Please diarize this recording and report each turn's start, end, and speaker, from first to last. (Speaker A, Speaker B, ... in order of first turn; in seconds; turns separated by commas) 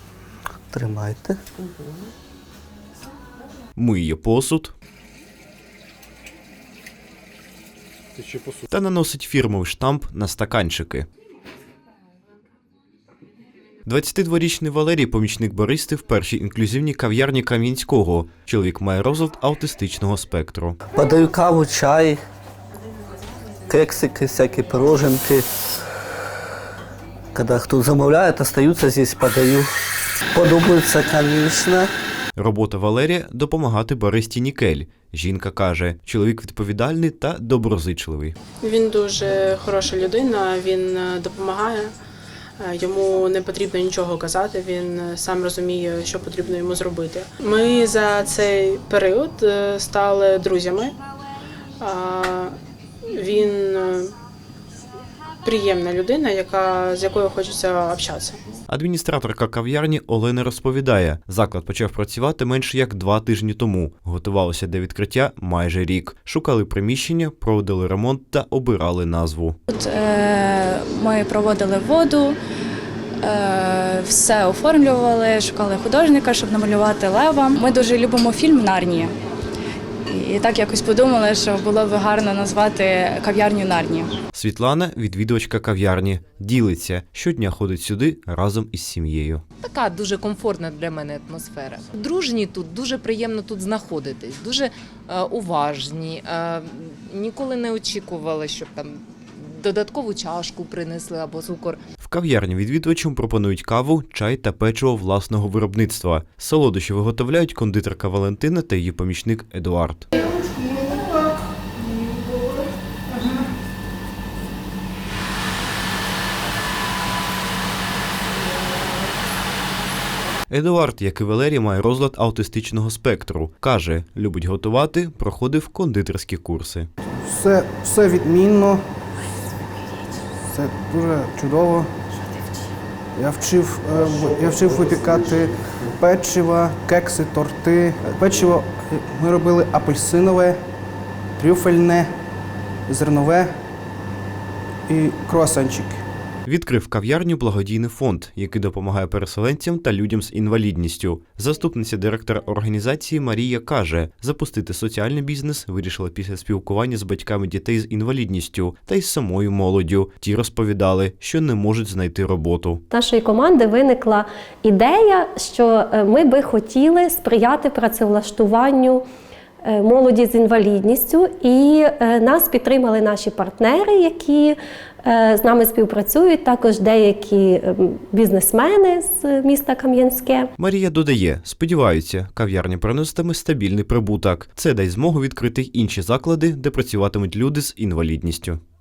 Speaker A: 0.7-1.4, Speaker B: 3.8-4.7, Speaker B: 8.7-11.1, Speaker B: 13.8-20.8, Speaker A: 20.9-22.2, Speaker A: 23.7-25.4, Speaker A: 27.3-29.7, Speaker A: 30.3-31.9, Speaker B: 32.4-38.4, Speaker C: 38.6-41.9, Speaker C: 42.6-50.9, Speaker C: 51.8-52.5, Speaker C: 53.1-54.1, Speaker C: 55.4-58.4, Speaker B: 58.7-69.6, Speaker D: 69.7-72.3, Speaker D: 73.2-79.1, Speaker D: 80.1-84.1, Speaker B: 84.3-89.4, Speaker E: 89.6-101.8, Speaker B: 102.0-110.0, Speaker B: 120.5-126.9, Speaker F: 127.0-128.8, Speaker F: 130.4-131.9, Speaker F: 133.2-140.6, Speaker F: 141.4-142.1, Speaker F: 142.9-143.5, Speaker F: 144.9-146.0, Speaker B: 146.4-162.8, Speaker G: 162.9-169.0, Speaker G: 169.6-180.5, Speaker B: 180.6-188.6